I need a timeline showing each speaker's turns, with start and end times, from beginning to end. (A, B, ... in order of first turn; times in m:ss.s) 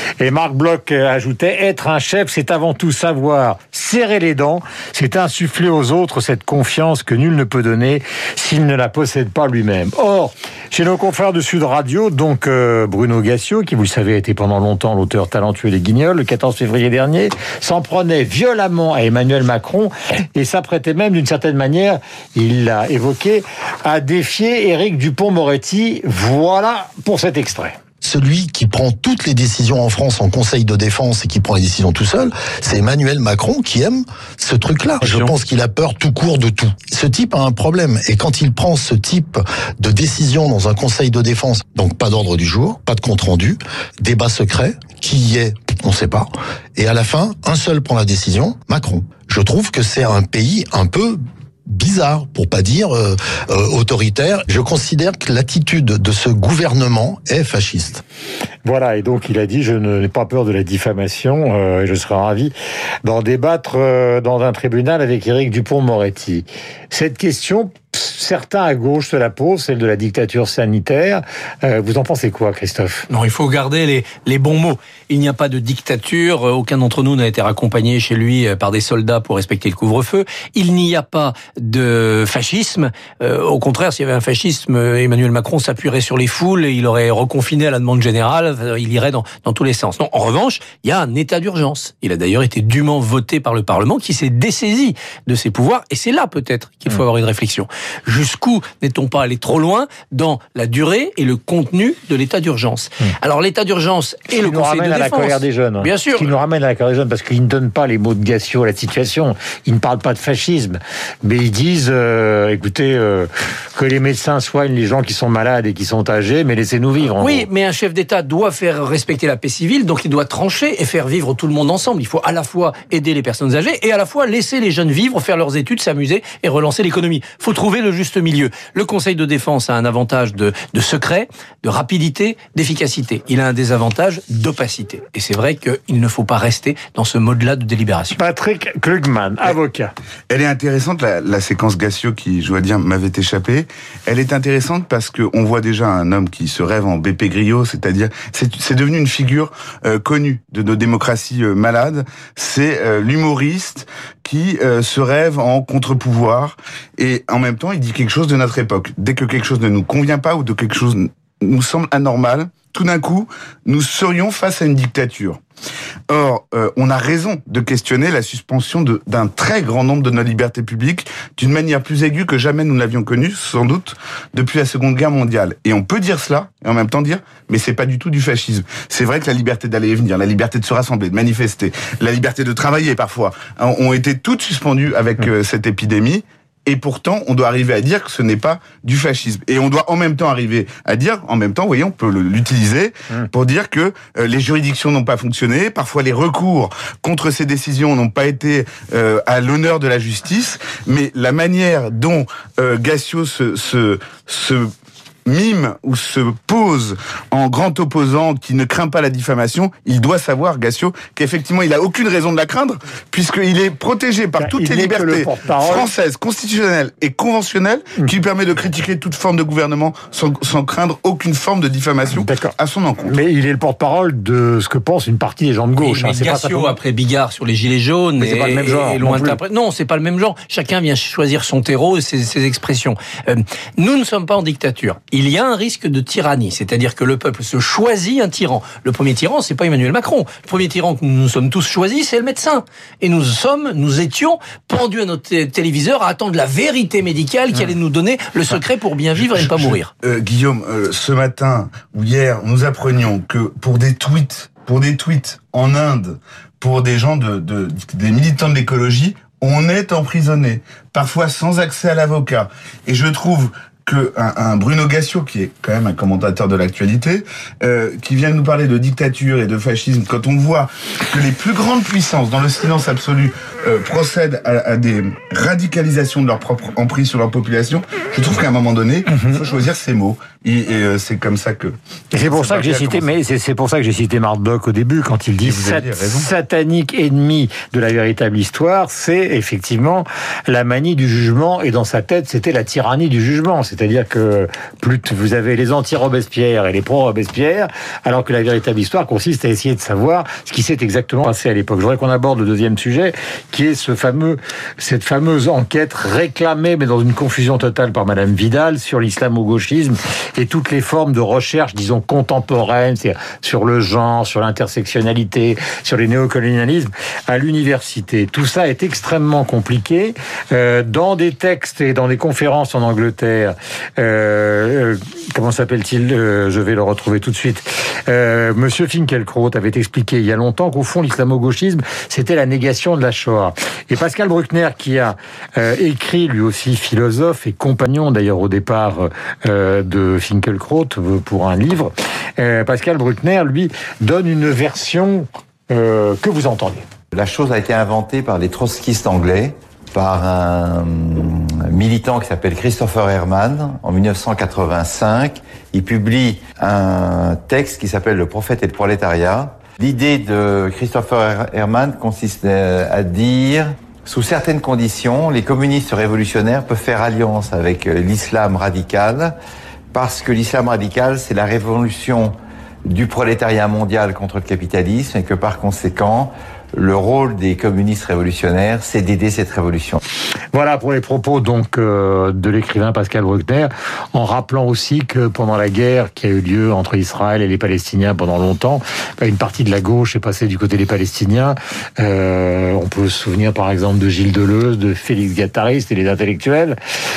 0:00.2-0:27.7 A
0:28.0-0:58.0 B
0:35.0-0:35.3 C
0:58.6-1:13.1 A
1:13.1-1:46.3 C
1:44.3-1:57.5 A
1:57.1-2:18.2 C
2:18.2-2:19.9 A
2:20.3-2:45.4 D
2:46.1-3:24.7 D
3:25.2-3:43.2 D
3:34.4-3:35.9 A
3:42.1-3:42.5 A
3:43.1-3:46.8 A
3:45.8-4:09.9 C
3:48.2-3:49.4 A
4:09.2-4:43.1 D
4:42.1-5:46.8 A
4:45.4-4:46.3 D
5:47.1-6:09.4 E
6:09.9-6:20.0 E
6:20.5-6:36.8 A